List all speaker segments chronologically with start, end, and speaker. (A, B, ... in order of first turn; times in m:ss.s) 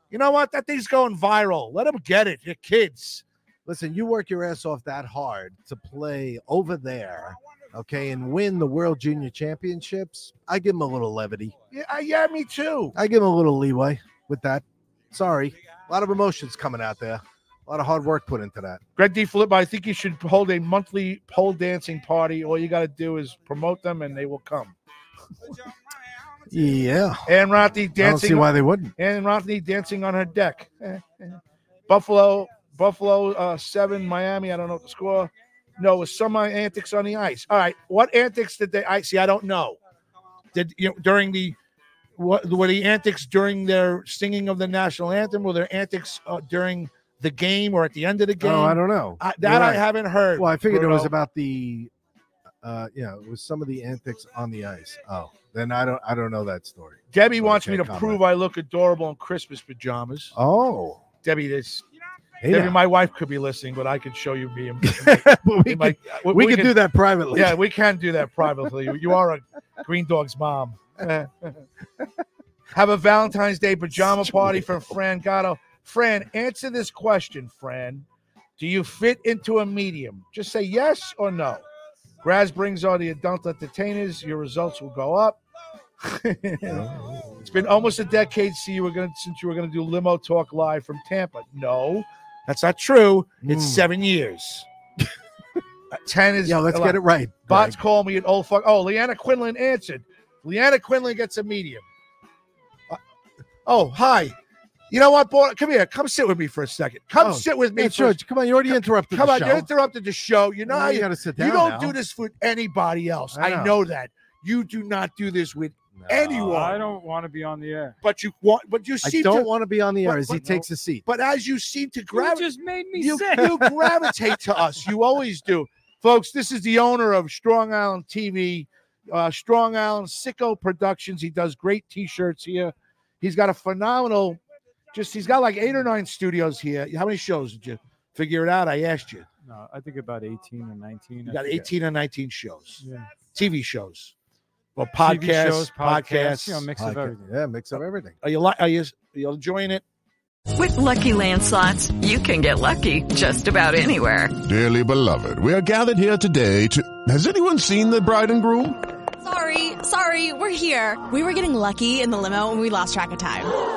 0:00.1-0:03.2 A
0:03.6-0:11.5 B
0:11.7-0:12.9 A
0:12.9-0:18.8 B
0:19.0-0:24.7 A
0:26.5-0:27.3 B
0:27.2-0:31.4 A
0:28.0-0:28.9 B
0:31.9-0:39.8 A
0:40.5-0:41.6 A
0:42.2-0:51.1 A
0:48.4-0:51.9 B
0:52.6-0:58.2 B
0:57.1-1:00.3 A
1:00.3-1:01.0 B
1:01.2-1:01.8 A
1:02.4-1:02.8 B
1:02.5-1:06.7 A
1:04.8-1:07.6 B
1:07.3-1:11.6 A
1:12.7-1:18.0 A
1:18.6-1:21.6 A
1:22.2-1:25.4 A
1:26.0-1:26.8 A
1:26.6-1:27.5 B
1:27.4-1:34.7 A
1:33.4-1:33.8 B
1:35.9-1:41.8 A
1:36.4-1:37.8 B
1:43.6-1:44.4 A
1:44.9-1:56.8 A
1:47.2-1:49.7 B
1:50.7-1:51.9 B
1:53.3-1:53.8 B
1:55.9-1:56.7 B
1:56.5-1:58.0 C
1:58.0-1:59.5 A
1:59.0-2:01.0 B
2:00.0-2:00.4 A
2:00.3-2:00.6 C
2:01.0-2:14.4 A
2:02.1-2:03.8 C
2:14.9-2:19.3 A
2:19.4-2:21.6 C
2:21.3-2:24.1 A
2:22.8-2:23.2 C
2:24.8-2:26.7 A
2:25.0-2:27.3 C
2:26.8-2:28.2 B
2:28.2-2:29.8 A
2:30.6-2:34.3 D
2:34.4-2:38.8 E
2:39.2-2:43.5 F